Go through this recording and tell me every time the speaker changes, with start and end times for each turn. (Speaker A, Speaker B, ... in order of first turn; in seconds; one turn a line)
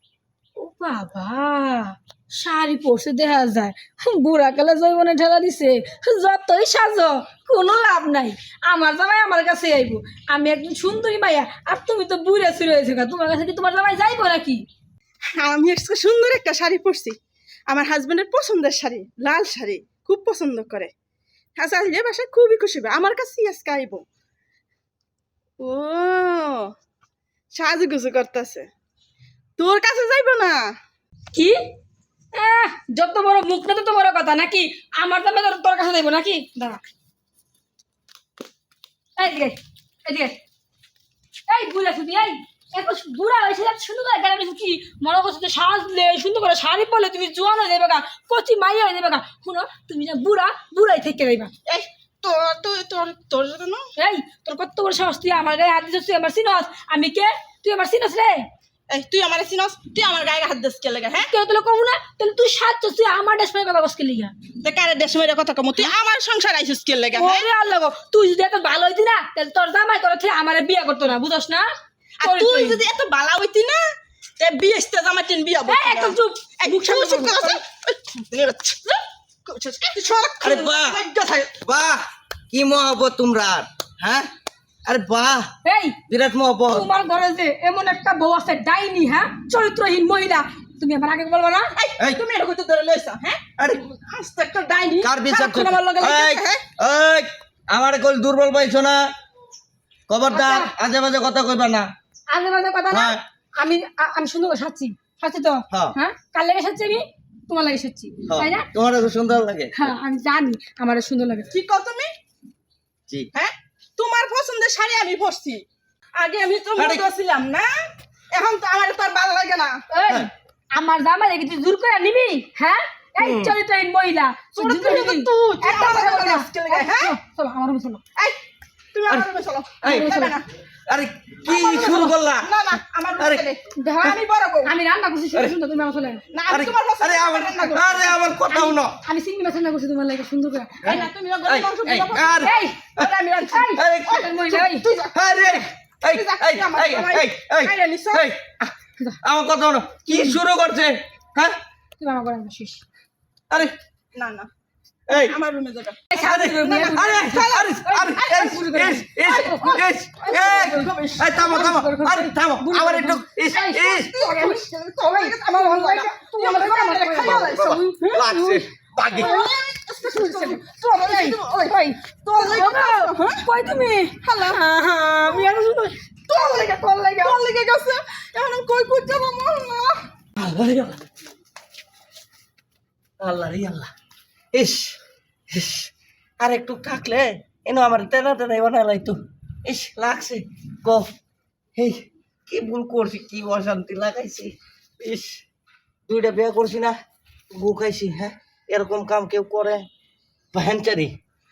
Speaker A: 0.6-14.6
Speaker B: 15.4-17.2
Speaker B: 17.7-20.9
Speaker B: 21.6-24.1
Speaker B: 25.6-26.7
Speaker B: 27.5-28.7
Speaker B: 29.6-30.7
Speaker A: 31.3-31.6
Speaker A: 32.3-36.8
Speaker A: 39.2-40.4
Speaker A: 41.5-51.5
Speaker B: 51.7-53.9
Speaker A: 54.0-58.5
Speaker B: 58.9-61.3
Speaker A: 61.2-64.3
Speaker B: 64.6-67.5
Speaker A: 67.1-71.7
Speaker B: 72.2-73.8
Speaker A: 72.2-72.8
Speaker B: 74.4-78.8
Speaker A: 75.7-77.6
Speaker B: 79.5-81.6
Speaker C: 80.4-81.0
Speaker C: 81.5-84.3
Speaker C: 84.8-85.5
Speaker A: 85.6-86.0
Speaker C: 86.1-86.9
Speaker A: 86.7-91.7
Speaker B: 91.8-96.6
Speaker C: 95.0-99.0
Speaker C: 100.1-101.9
Speaker A: 100.3-100.7
Speaker A: 102.3-108.7
Speaker C: 102.9-103.2
Speaker C: 108.2-109.9
Speaker A: 109.7-111.5
Speaker B: 111.5-112.1
Speaker B: 113.3-115.6
Speaker B: 116.2-117.8
Speaker C: 116.8-117.0
Speaker B: 118.3-119.8
Speaker A: 119.9-128.0
Speaker C: 123.2-123.5
Speaker B: 124.5-127.2
Speaker B: 128.9-130.5
Speaker C: 129.8-130.2
Speaker A: 129.8-130.3
Speaker C: 130.9-132.5
Speaker B: 131.4-134.7
Speaker C: 133.2-133.4
Speaker A: 133.8-136.2
Speaker B: 136.3-138.2
Speaker C: 136.5-138.9
Speaker A: 138.5-141.0
Speaker B: 140.8-145.2
Speaker C: 140.8-143.1
Speaker A: 142.4-142.8
Speaker A: 143.5-144.9
Speaker C: 143.7-144.3
Speaker C: 145.1-151.6
Speaker B: 146.0-148.3
Speaker A: 150.1-150.4
Speaker A: 152.0-152.8
Speaker B: 154.1-154.5
Speaker C: 155.1-155.3
Speaker B: 155.1-156.1
Speaker A: 156.1-169.5
Speaker C: 156.2-164.1
Speaker B: 156.6-158.5
Speaker B: 159.2-161.7
Speaker B: 163.8-168.3
Speaker C: 167.2-169.3
Speaker B: 169.1-173.4
Speaker A: 170.1-177.4
Speaker B: 174.2-175.6
Speaker B: 176.3-180.0
Speaker C: 180.4-181.0
Speaker C: 183.2-183.9
Speaker C: 184.5-185.0
Speaker C: 185.5-191.1
Speaker C: 191.8-195.4
Speaker C: 196.1-196.9
Speaker C: 197.5-199.8
Speaker C: 200.5-201.1